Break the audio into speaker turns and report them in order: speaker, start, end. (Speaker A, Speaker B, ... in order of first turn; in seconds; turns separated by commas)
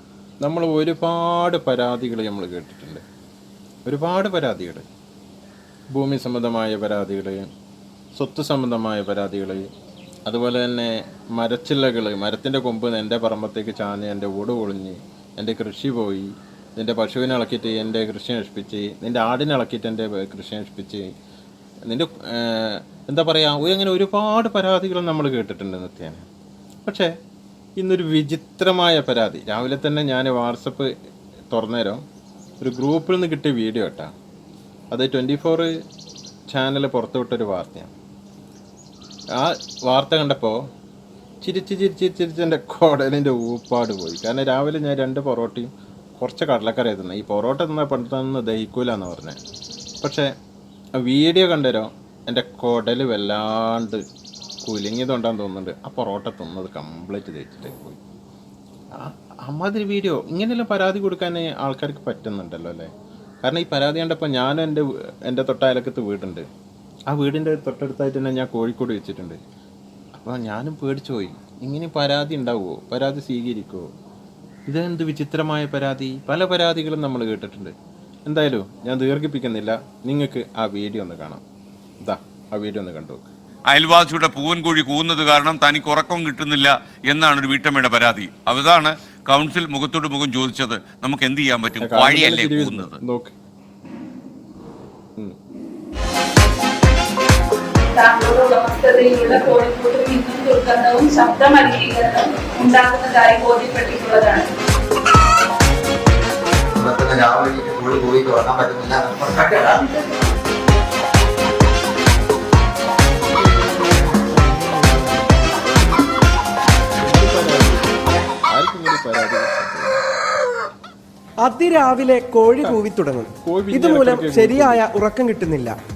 Speaker A: 0.4-3.0, Speaker A: 3.9-4.8, Speaker A: 5.9-7.5, Speaker A: 8.2-9.7, Speaker A: 10.3-21.1, Speaker A: 21.9-26.2, Speaker A: 26.9-27.1, Speaker A: 27.8-30.9, Speaker A: 31.5-32.0, Speaker A: 32.6-34.1, Speaker A: 34.9-35.7, Speaker A: 36.5-37.9, Speaker A: 39.4-40.6, Speaker A: 41.4-49.4, Speaker A: 50.0-50.3, Speaker A: 51.0-54.0, Speaker A: 54.6-58.0, Speaker A: 58.9-62.9, Speaker A: 63.4-66.5, Speaker A: 67.1-69.4, Speaker A: 70.2-73.9, Speaker A: 74.7-77.7, Speaker A: 78.3-81.4, Speaker A: 82.0-83.3, Speaker B: 83.7-93.0, Speaker A: 91.8-93.4, Speaker C: 98.0-104.5, Speaker D: 106.7-109.8, Speaker A: 113.3-116.0, Speaker A: 117.0-120.0, Speaker E: 121.4-125.8, Speaker A: 123.4-124.9